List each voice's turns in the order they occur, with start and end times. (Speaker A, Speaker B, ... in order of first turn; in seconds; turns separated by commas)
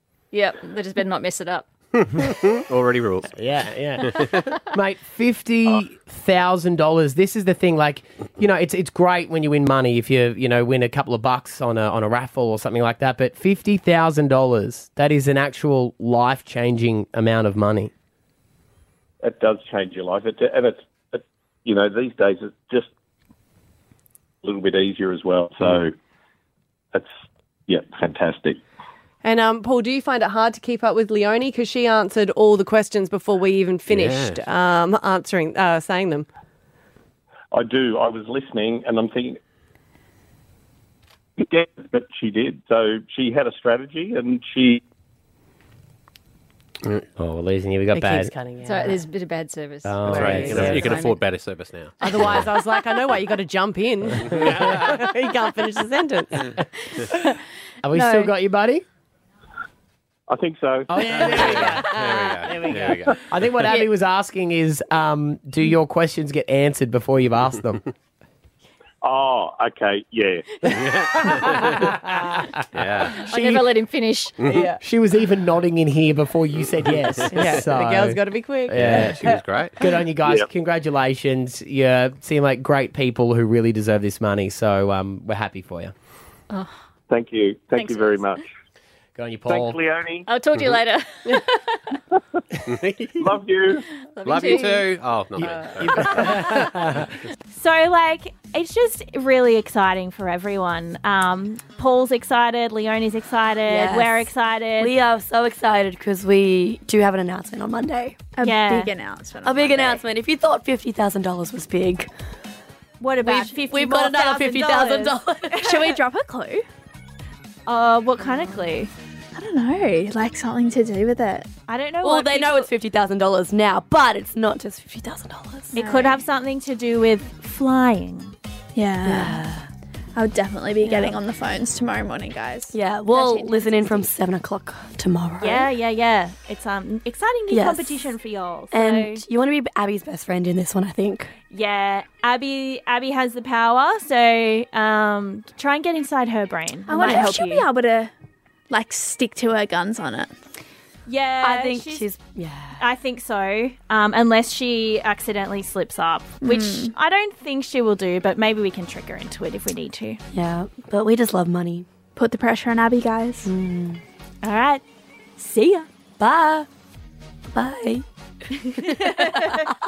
Speaker A: 0.3-1.7, Speaker B: 2.2-3.3, Speaker C: 3.3-17.9, Speaker D: 19.2-22.9, Speaker D: 24.4-25.9, Speaker D: 27.7-28.6, Speaker E: 29.2-36.3, Speaker B: 33.9-34.5, Speaker D: 37.5-39.4, Speaker D: 41.4-44.8, Speaker C: 47.2-48.3, Speaker E: 47.9-49.0, Speaker A: 48.6-51.3, Speaker C: 49.8-51.0, Speaker B: 50.0-52.5, Speaker E: 50.1-50.7, Speaker E: 52.0-56.6, Speaker B: 54.2-55.0, Speaker C: 57.8-58.8, Speaker A: 57.9-58.3, Speaker D: 60.3-61.9, Speaker C: 60.9-67.8, Speaker B: 61.1-63.1, Speaker D: 69.0-70.7, Speaker B: 70.7-71.6, Speaker C: 71.3-73.7, Speaker B: 72.7-73.2, Speaker A: 73.1-74.6, Speaker B: 74.4-74.7, Speaker E: 74.5-74.8, Speaker C: 74.7-85.9, Speaker B: 76.6-77.6, Speaker E: 77.3-79.4, Speaker B: 78.7-79.9, Speaker D: 80.2-80.5, Speaker D: 87.1-88.5, Speaker A: 87.7-88.1, Speaker C: 89.2-89.8, Speaker D: 89.5-90.3, Speaker A: 90.3-92.0, Speaker B: 92.7-93.3, Speaker D: 93.2-93.9, Speaker A: 94.1-94.9, Speaker B: 94.2-97.1, Speaker C: 95.4-97.0, Speaker F: 97.5-104.9, Speaker G: 103.7-108.2, Speaker H: 108.4-110.0, Speaker F: 108.4-108.9, Speaker G: 109.4-112.1, Speaker F: 113.0-115.2, Speaker G: 113.2-115.9, Speaker H: 115.5-116.6, Speaker F: 117.7-118.9, Speaker H: 119.3-121.5, Speaker F: 121.7-122.7, Speaker G: 122.0-125.8, Speaker H: 125.7-126.2, Speaker F: 125.8-128.3, Speaker H: 128.8-129.4, Speaker G: 129.1-129.7, Speaker H: 130.2-134.1, Speaker G: 130.8-131.2, Speaker G: 132.7-135.7, Speaker F: 135.4-139.2, Speaker G: 137.5-138.1, Speaker G: 138.7-141.3, Speaker F: 141.5-147.7, Speaker H: 146.9-148.1, Speaker G: 146.9-147.3, Speaker H: 148.7-150.3, Speaker F: 151.1-152.1, Speaker G: 151.4-152.8, Speaker F: 152.8-160.2, Speaker H: 156.4-156.9, Speaker G: 160.3-161.9, Speaker H: 162.2-163.5, Speaker G: 163.4-164.0, Speaker F: 164.4-164.8, Speaker F: 165.4-165.9, Speaker G: 166.2-166.7, Speaker G: 167.5-168.0, Speaker F: 168.7-169.5, Speaker G: 169.0-169.6